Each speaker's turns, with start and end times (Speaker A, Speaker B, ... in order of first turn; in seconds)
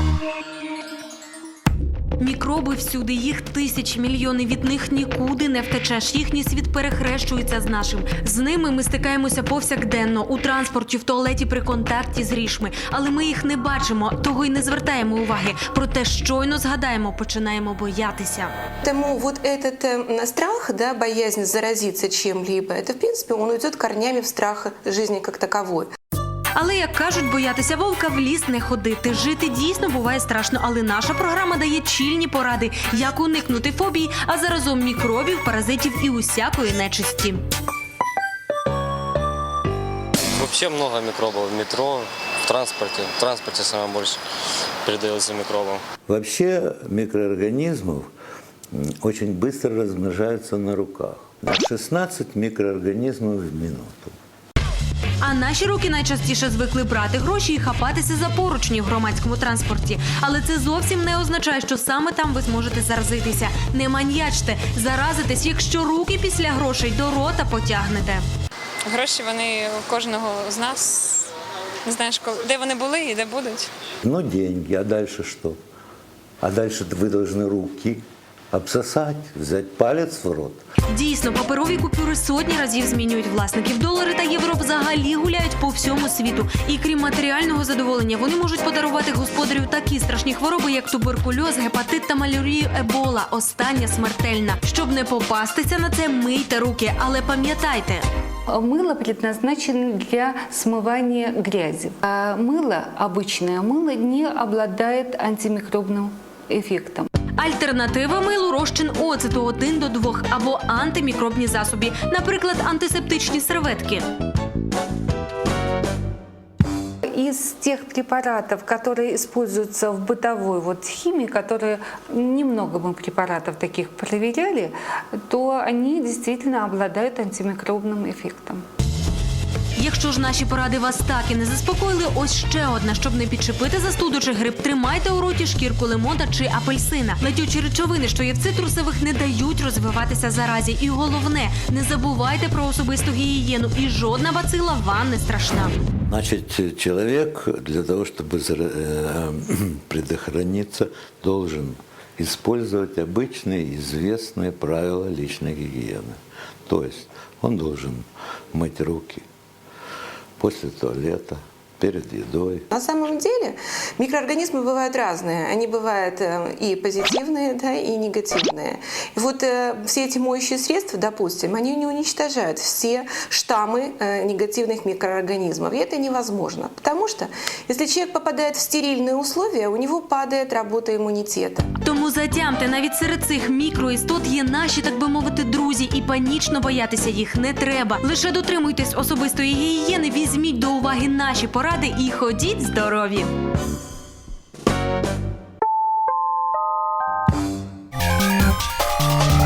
Speaker A: 2.2-18.5, 26.5-37.5, 55.2-68.2, 80.9-98.0, 107.4-114.1, 129.8-145.7, 181.8-193.3
Speaker B: 18.8-25.9, 162.7-181.7
Speaker C: 40.3-44.2, 44.8-45.8
Speaker D: 46.1-48.1, 48.7-54.1, 74.0-75.6, 76.4-80.6, 146.1-159.3, 160.4-162.7
Speaker E: 68.9-71.3, 71.8-73.7
Speaker F: 98.5-107.1, 117.1-124.7, 125.3-128.6